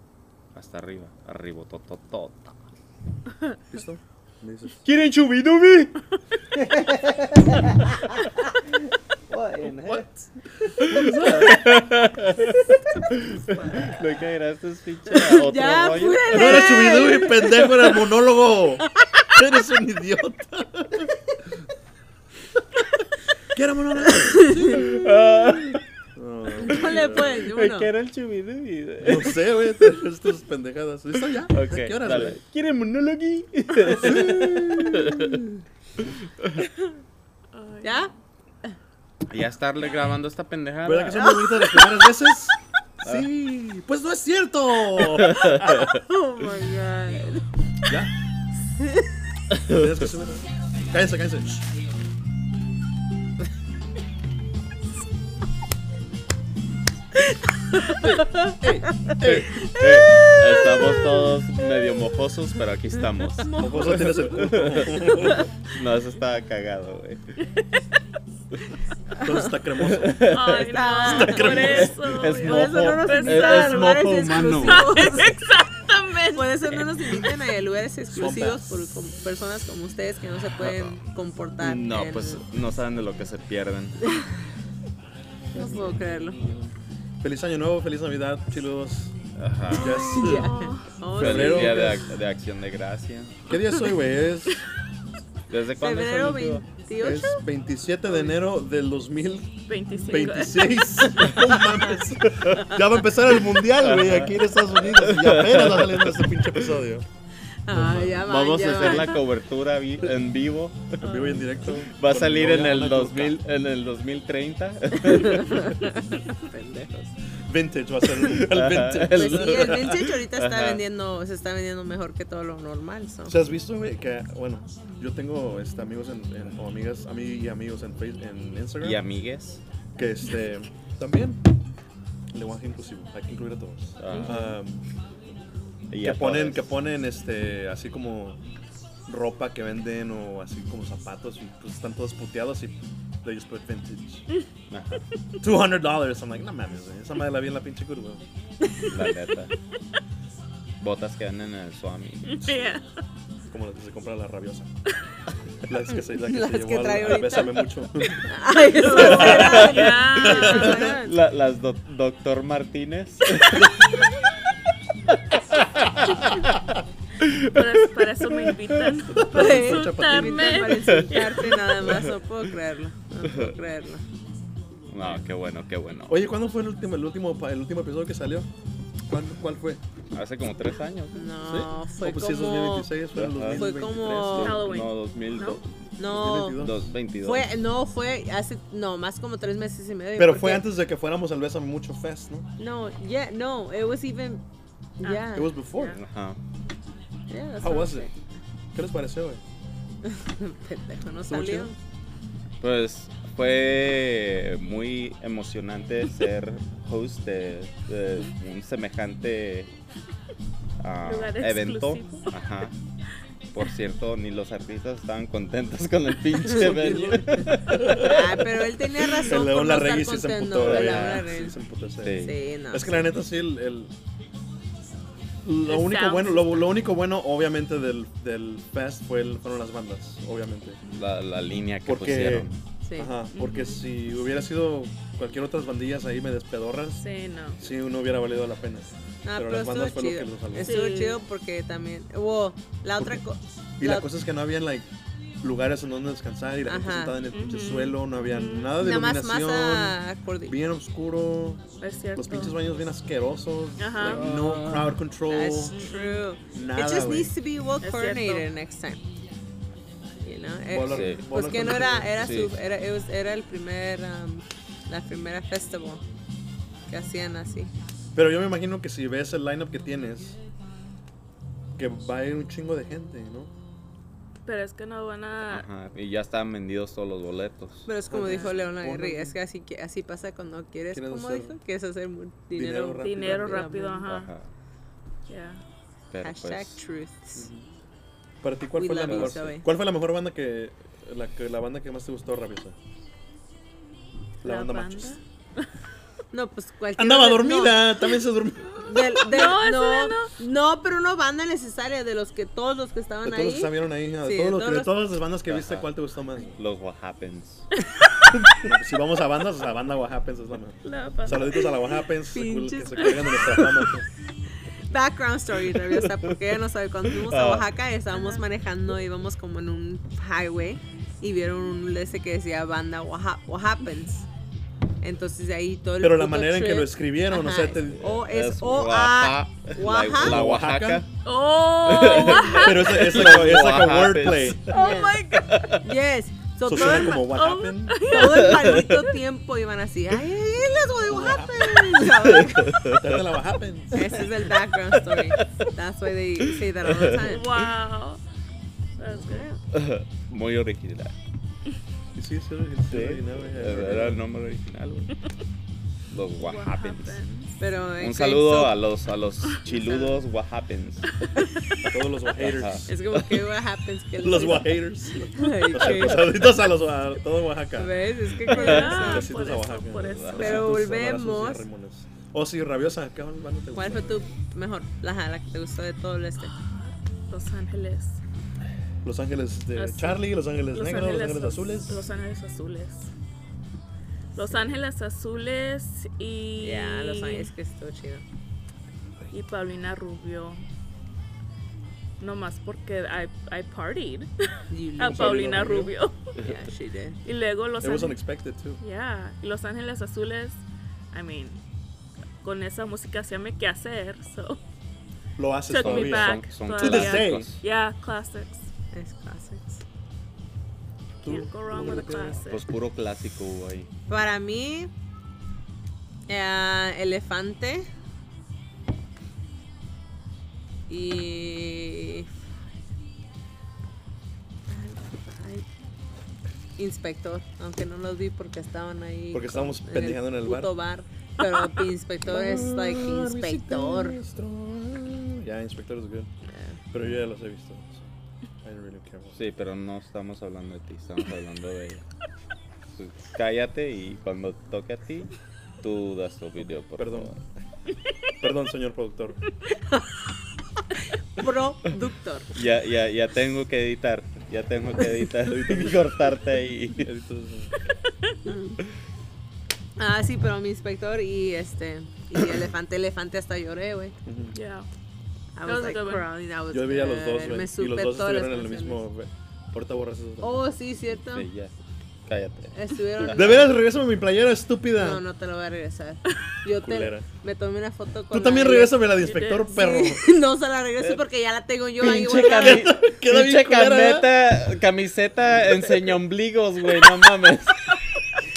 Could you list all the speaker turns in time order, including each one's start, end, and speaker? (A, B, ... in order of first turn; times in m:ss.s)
0:00.5-0:02.6 A
0:03.7-0:04.8 B
0:04.8-0:06.0 A
0:06.5-0:08.7 C
0:09.3-0:10.1 C
0:09.8-0:11.7 B
0:10.8-0:16.9 A
0:15.2-0:18.0 D
0:16.3-0:21.1 B
0:18.9-0:19.3 D
0:23.5-0:27.4 B
0:24.1-0:24.9 D
0:24.7-0:25.8 A
0:26.6-0:27.9 D
0:26.6-0:29.4 A
0:29.0-0:32.4 B
0:31.5-0:35.5 A
0:34.0-0:34.5 B
0:37.5-0:38.2 E
0:37.8-0:38.1 D
0:39.3-0:41.4 A
0:40.8-0:45.9 B
0:41.2-0:42.0 D
0:45.1-0:45.6 A
0:45.6-0:47.5 D
0:47.8-0:48.1 B
0:49.6-0:49.8 A
0:49.6-0:51.6 B
0:57.7-0:58.5 D
0:58.6-0:59.5 B
0:59.2-1:07.2 A
0:59.6-1:01.2 D
1:03.5-1:04.2 E
1:03.5-1:05.4 B
1:09.2-1:09.5 D
1:09.2-1:10.4 B
1:09.8-1:15.0 A
1:10.3-1:17.3 E
1:10.7-1:15.4 D
1:11.0-1:12.0 B
1:16.3-1:22.4 D
1:18.1-1:18.8 B
1:20.5-1:21.0 A
1:21.6-1:24.1 A
1:25.5-1:29.2 B
1:25.5-1:26.4 D
1:29.4-1:30.1 A
1:29.7-1:30.5 B
1:29.8-1:30.9 E
1:29.9-1:32.0 D
1:31.2-1:32.1 B
1:31.2-1:33.4 A
1:33.5-1:34.6 B
1:35.5-1:36.6 A
1:35.8-1:37.4 D
1:37.0-1:47.0 B
1:39.7-1:41.0 E
1:42.3-1:42.7 A
1:43.7-1:46.7 A
1:47.6-1:49.2 D
1:47.8-1:48.1 B
1:47.8-1:55.8 A
1:51.0-1:53.4 B
1:51.1-1:51.5 D
1:55.0-1:57.1 D
1:57.4-2:00.1 B
1:58.2-2:00.8 A
1:59.1-2:03.4 D
2:03.2-2:09.0 B
2:08.8-2:09.6 A
2:10.0-2:11.4 B
2:12.3-2:14.8 B
2:14.0-2:14.5 A
2:14.1-2:14.4 E
2:15.9-2:16.6 A
2:16.0-2:18.4 B
2:19.0-2:24.2 B
2:24.7-2:25.0 A
2:25.4-2:28.2 B
2:28.8-2:29.5 A
2:30.8-2:32.5 A
2:32.4-2:32.8 E
2:32.4-2:32.7 B
2:33.5-2:34.7 B
2:35.6-2:38.3 B
2:35.9-2:41.2 D
2:38.7-2:40.9 E
2:39.0-2:40.9 B
2:39.0-2:43.9 A
2:45.1-2:46.6 A
2:46.1-2:46.4 E
2:47.2-2:48.9 A
2:47.4-2:51.7 E
2:49.1-2:50.7 B
2:49.3-2:54.0 D
2:50.7-2:51.3 A
2:51.8-2:52.2 A
2:54.9-2:56.2 A
2:56.1-2:58.5 B
2:59.0-2:59.8 B
3:00.1-3:01.3 A
3:01.1-3:04.6 D
3:01.4-3:04.6 B
3:03.1-3:05.7 A
3:04.4-3:05.6 E
3:06.0-3:06.6 D
3:06.0-3:06.9 B
3:06.5-3:07.5 A
3:07.2-3:10.7 D
3:10.2-3:12.5 B
3:12.6-3:14.4 D
3:15.0-3:15.5 D
3:15.0-3:16.0 E
3:15.3-3:16.0 B
3:15.9-3:16.4 A
3:17.3-3:18.1 D
3:17.6-3:18.1 B
3:18.7-3:19.4 B
3:20.0-3:21.8 D
3:21.3-3:21.7 B
3:22.6-3:29.7 A
3:30.8-3:32.7 A
3:31.0-3:32.3 E
3:33.5-3:38.4 A
3:36.7-3:38.4 B
3:37.9-3:41.5 D
3:39.2-3:43.9 B
3:40.6-3:41.5 A
3:42.0-3:42.3 A
3:42.2-3:43.1 D
3:45.4-3:50.8 B
3:45.6-3:46.7 E
3:50.8-3:52.6 A
3:51.8-3:57.0 B
3:52.8-3:53.1 D
3:53.3-3:53.8 E
3:57.0-3:57.6 E
3:57.6-4:00.8 B
3:59.2-4:04.1 D
4:00.6-4:01.2 E
4:03.8-4:04.9 B
4:05.4-4:15.8 B
4:06.7-4:07.2 D
4:07.3-4:08.8 E
4:08.8-4:10.6 D
4:11.8-4:12.6 E
4:13.8-4:14.3 E
4:14.0-4:14.8 A
4:14.3-4:14.8 C
4:15.2-4:19.0 D
4:15.7-4:16.3 E
4:16.5-4:17.3 B
4:17.8-4:18.5 E
4:20.2-4:26.0 D
4:20.7-4:22.4 B
4:20.9-4:21.3 A
4:22.2-4:22.5 A
4:26.9-4:27.7 D
4:28.1-4:30.4 B
4:31.8-4:33.5 B
4:34.4-4:35.7 E
4:35.5-4:37.9 A
4:37.8-4:44.1 D
4:38.1-4:39.4 B
4:40.9-4:41.6 B
4:42.5-4:43.7 B
4:43.0-4:44.3 E
4:44.0-4:44.5 A
4:45.3-4:45.6 E
4:46.1-4:46.8 A
4:46.2-4:47.5 D
4:47.4-4:47.6 B
4:48.4-4:52.8 B
4:48.8-4:49.7 D
4:54.4-4:55.2 B
4:54.4-4:55.7 E
4:56.3-4:58.0 D
4:57.0-4:58.9 B
4:58.8-5:04.9 D
4:59.1-5:00.3 E
5:03.2-5:06.6 B
5:05.5-5:05.9 A
5:06.6-5:07.7 A
5:08.6-5:14.1 B
5:10.8-5:11.7 E
5:12.3-5:13.9 D
5:14.9-5:24.2 D
5:15.9-5:16.3 A
5:17.2-5:17.7 A
5:25.0-5:30.4 D
5:26.0-5:28.2 B
5:28.0-5:31.1 A
5:30.2-5:31.0 B
5:31.2-5:33.3 E
5:31.8-5:34.8 A
5:32.3-5:34.7 B
5:34.7-5:35.7 E
5:34.7-5:35.2 D
5:35.4-5:35.8 A
5:35.8-5:37.3 D
5:36.6-5:38.0 B
5:37.1-5:38.9 E
5:38.0-5:42.8 D
5:38.2-5:39.0 A
5:41.0-5:42.1 B
5:42.2-5:43.1 A
5:42.8-5:44.2 B
5:43.9-5:47.4 D
5:45.0-5:45.5 A
5:47.1-5:48.2 E
5:49.0-5:49.5 E
5:49.0-5:49.6 D
5:49.7-5:51.1 A
5:52.1-5:54.2 B
5:52.9-5:55.1 A
5:56.1-5:57.2 A
5:56.4-5:57.5 E
5:57.6-5:58.8 D
5:58.0-6:01.3 A
5:59.7-6:00.2 D
6:01.8-6:03.0 B
6:02.4-6:03.4 A
6:02.8-6:06.5 D
6:04.2-6:14.3 B
6:07.8-6:09.3 D
6:08.4-6:10.7 E
6:08.5-6:08.9 A
6:10.1-6:10.6 A
6:10.3-6:11.7 D
6:13.7-6:16.6 D
6:16.4-6:18.2 E
6:19.0-6:22.0 B
6:19.7-6:23.1 E
6:24.3-6:27.5 E
6:26.6-6:28.2 D
6:29.3-6:30.6 E
6:32.2-6:36.3 E
6:34.7-6:35.4 D
6:35.0-6:35.9 B
6:36.3-6:37.2 D
6:36.4-6:36.6 A
6:37.2-6:38.2 E
6:37.8-6:38.8 B
6:38.8-6:40.6 E
6:41.1-6:41.6 E
6:42.4-6:44.6 E
6:45.4-6:47.5 B
6:45.7-6:48.6 E
6:45.7-6:47.6 A
6:48.9-6:49.8 D
6:51.2-6:52.4 B
6:51.2-6:52.6 E
6:52.4-6:53.9 A
6:54.1-6:54.9 D
6:56.3-6:57.9 D
7:00.9-7:02.3 D
7:04.7-7:05.6 D
7:06.8-7:14.2 D
7:09.3-7:10.7 B
7:12.2-7:16.3 B
7:16.5-7:16.8 D
7:16.9-7:18.1 B
7:18.6-7:19.4 B
7:19.3-7:22.0 A
7:22.9-7:27.3 A
7:27.0-7:27.4 B
7:28.4-7:29.4 B
7:31.3-7:32.5 D
7:32.5-7:37.1 A
7:35.4-7:36.2 B
7:37.0-7:37.8 B
7:38.4-7:38.8 D
7:40.0-7:44.2 D
7:44.2-7:44.6 B
7:44.5-7:44.9 E
7:45.5-7:49.0 D
7:45.6-7:46.3 E
7:46.7-7:50.7 B
7:50.4-7:51.5 D
7:51.3-7:51.7 A
7:52.2-7:53.6 A
7:52.7-7:53.7 D
7:53.3-7:55.2 B
7:55.0-7:59.1 D
7:56.8-7:57.3 B
7:58.3-8:00.3 B
7:59.2-8:00.1 E
7:59.7-8:02.9 D
8:02.0-8:08.0 A
8:02.3-8:04.3 B